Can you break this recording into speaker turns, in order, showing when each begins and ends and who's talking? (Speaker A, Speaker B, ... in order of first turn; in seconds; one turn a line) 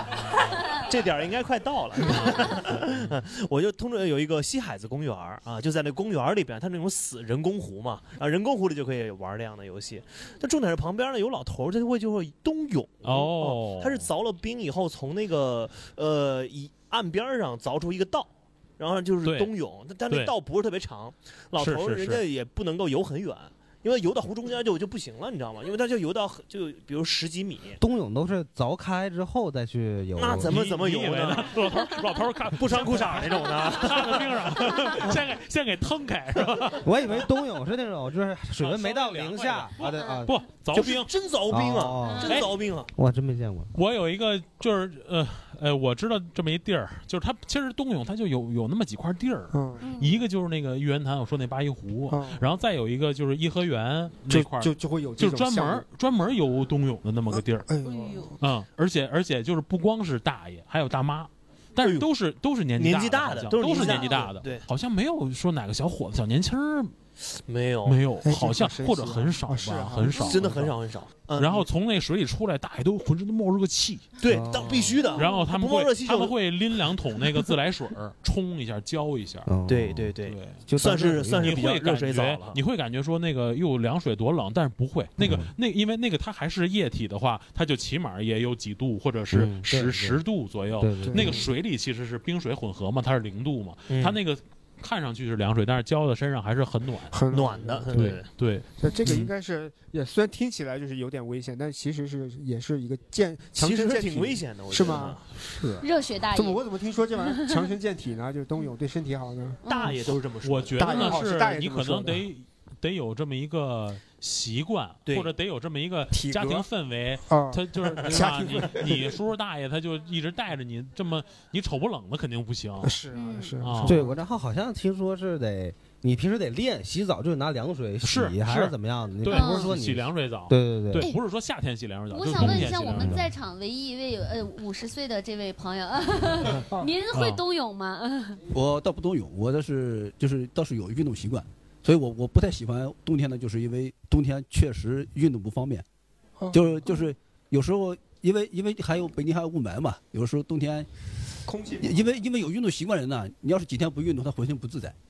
Speaker A: 0.8-27.8
Speaker B: 2.0-3.1
Speaker B: 13.0-14.1
Speaker B: 19.2-19.5
Speaker B: 20.1-20.3
Speaker B: 21.6-22.2
Speaker C: 27.8-30.6
Speaker A: 30.2-31.6
Speaker B: 30.4-36.9
Speaker A: 32.5-34.8
Speaker C: 36.8-40.4
Speaker B: 38.6-41.1
Speaker D: 39.8-40.2
Speaker A: 40.7-42.9
Speaker C: 41.5-42.4
Speaker D: 42.0-42.4
Speaker B: 42.2-42.5
Speaker C: 42.9-43.7
Speaker B: 43.7-57.7
Speaker E: 49.5-49.9
Speaker D: 49.8-50.2
Speaker E: 52.1-52.5
Speaker E: 54.3-55.9
Speaker E: 57.3-58.4
Speaker B: 58.4-66.9
Speaker A: 61.8-62.1
Speaker A: 62.8-64.6
Speaker A: 67.4-68.0
Speaker B: 67.8-70.7
Speaker E: 68.2-70.6
Speaker A: 70.2-71.7
Speaker B: 71.3-74.0
Speaker A: 74.2-76.3
Speaker C: 74.2-74.9
Speaker B: 75.1-79.5
Speaker C: 79.5-80.1
Speaker A: 79.7-82.6
Speaker B: 80.2-80.6
Speaker C: 80.7-81.6
Speaker B: 81.4-97.2
Speaker C: 85.2-85.5
Speaker C: 89.3-90.2
Speaker C: 90.8-91.4
Speaker E: 91.1-91.4
Speaker A: 93.9-94.2
Speaker E: 97.1-98.2
Speaker A: 97.3-98.3
Speaker B: 97.9-99.3
Speaker E: 98.8-110.1
Speaker A: 103.6-105.2
Speaker D: 105.8-106.6
Speaker D: 109.6-109.9
Speaker A: 109.7-111.2
Speaker B: 110.4-123.0
Speaker E: 110.8-112.2
Speaker E: 116.1-116.7
Speaker E: 117.2-119.2
Speaker E: 122.8-124.2
Speaker D: 123.1-123.5
Speaker B: 123.6-124.0
Speaker C: 123.8-131.1
Speaker B: 128.0-133.3
Speaker D: 129.3-129.7
Speaker D: 132.1-138.4
Speaker C: 132.4-133.2
Speaker B: 137.1-137.4
Speaker F: 138.5-145.8
Speaker E: 146.4-146.9
Speaker F: 146.5-150.9
Speaker E: 151.4-152.1
Speaker F: 151.8-154.9